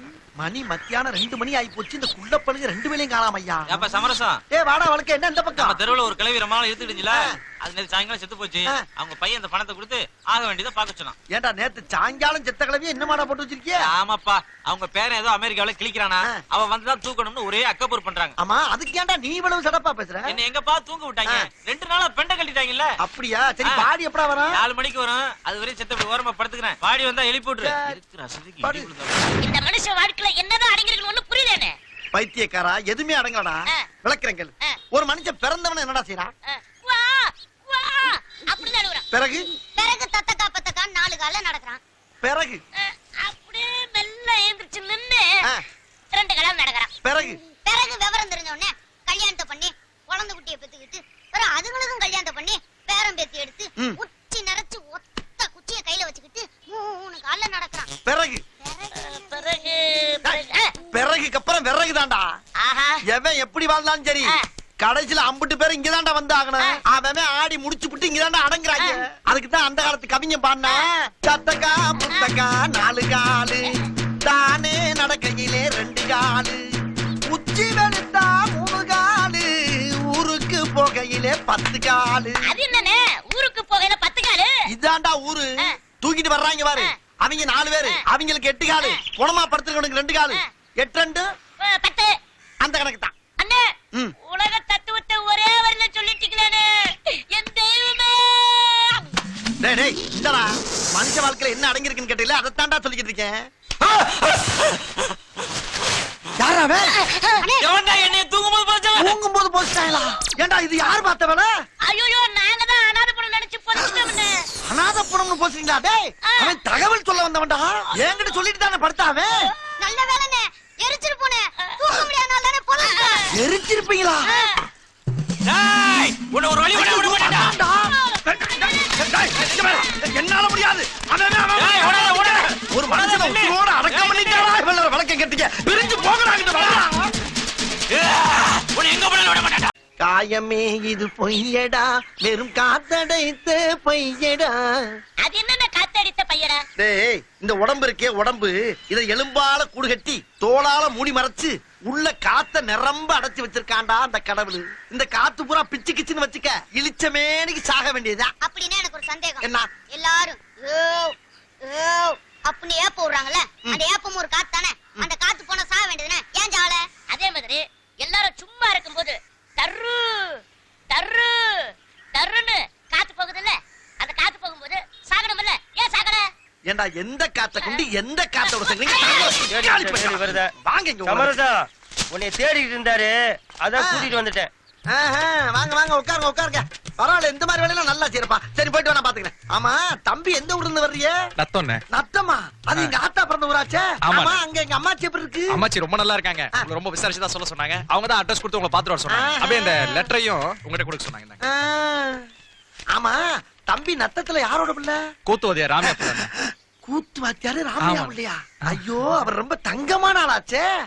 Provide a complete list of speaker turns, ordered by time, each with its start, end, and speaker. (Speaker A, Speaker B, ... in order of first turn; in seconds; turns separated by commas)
Speaker A: 0.4-3.9, Speaker B: 3.7-4.4, Speaker A: 4.5-5.8, Speaker B: 5.5-11.2, Speaker A: 11.3-13.9, Speaker B: 13.8-18.4, Speaker A: 18.4-20.4, Speaker B: 20.3-22.9, Speaker A: 23.0-24.6, Speaker B: 24.5-29.2, Speaker A: 27.6-28.0, Speaker A: 28.6-28.9, Speaker C: 29.4-31.8, Speaker A: 32.1-36.3, Speaker C: 36.5-39.0, Speaker A: 39.1-39.5, Speaker D: 39.8-41.8, Speaker A: 42.2-42.6, Speaker C: 42.8-45.4, Speaker C: 46.1-46.9, Speaker A: 47.0-47.4, Speaker D: 47.6-57.9, Speaker A: 58.1-58.4, Speaker D: 58.7-58.9, Speaker C: 59.0-60.7, Speaker A: 60.9-62.3, Speaker C: 62.6-63.0, Speaker A: 63.1-73.7, Speaker C: 72.0-72.3, Speaker A: 74.2-76.6, Speaker A: 77.3-82.4, Speaker C: 82.5-84.5, Speaker A: 84.7-85.5, Speaker A: 86.0-91.2, Speaker C: 91.6-92.1, Speaker A: 92.6-93.1, Speaker C: 93.4-93.7, Speaker C: 94.2-99.0, Speaker A: 99.6-103.4, Speaker A: 106.4-106.9, Speaker C: 107.1-107.4, Speaker B: 107.6-109.1, Speaker A: 109.0-111.5, Speaker C: 111.8-114.3, Speaker A: 114.7-119.3, Speaker D: 119.8-123.2, Speaker C: 122.8-123.2, Speaker A: 123.3-124.3, Speaker B: 125.5-127.5, Speaker A: 126.7-127.9, Speaker A: 129.0-137.1, Speaker B: 131.6-134.5, Speaker B: 138.8-139.6, Speaker A: 140.0-144.7, Speaker C: 145.2-146.6, Speaker A: 146.8-158.3, Speaker D: 158.4-166.9, Speaker A: 159.4-159.7, Speaker C: 167.1-176.3, Speaker A: 176.7-181.4, Speaker C: 178.8-179.4, Speaker E: 179.5-180.4, Speaker E: 181.1-181.5, Speaker E: 182.1-183.1, Speaker E: 183.7-184.5, Speaker A: 183.8-184.1, Speaker A: 184.9-191.2, Speaker F: 191.4-191.8, Speaker A: 191.9-195.6, Speaker F: 194.0-194.4, Speaker F: 195.5-201.4, Speaker A: 199.1-200.1, Speaker A: 201.4-202.2, Speaker A: 202.9-205.0, Speaker F: 205.3-206.3, Speaker A: 205.8-210.7, Speaker F: 207.8-208.1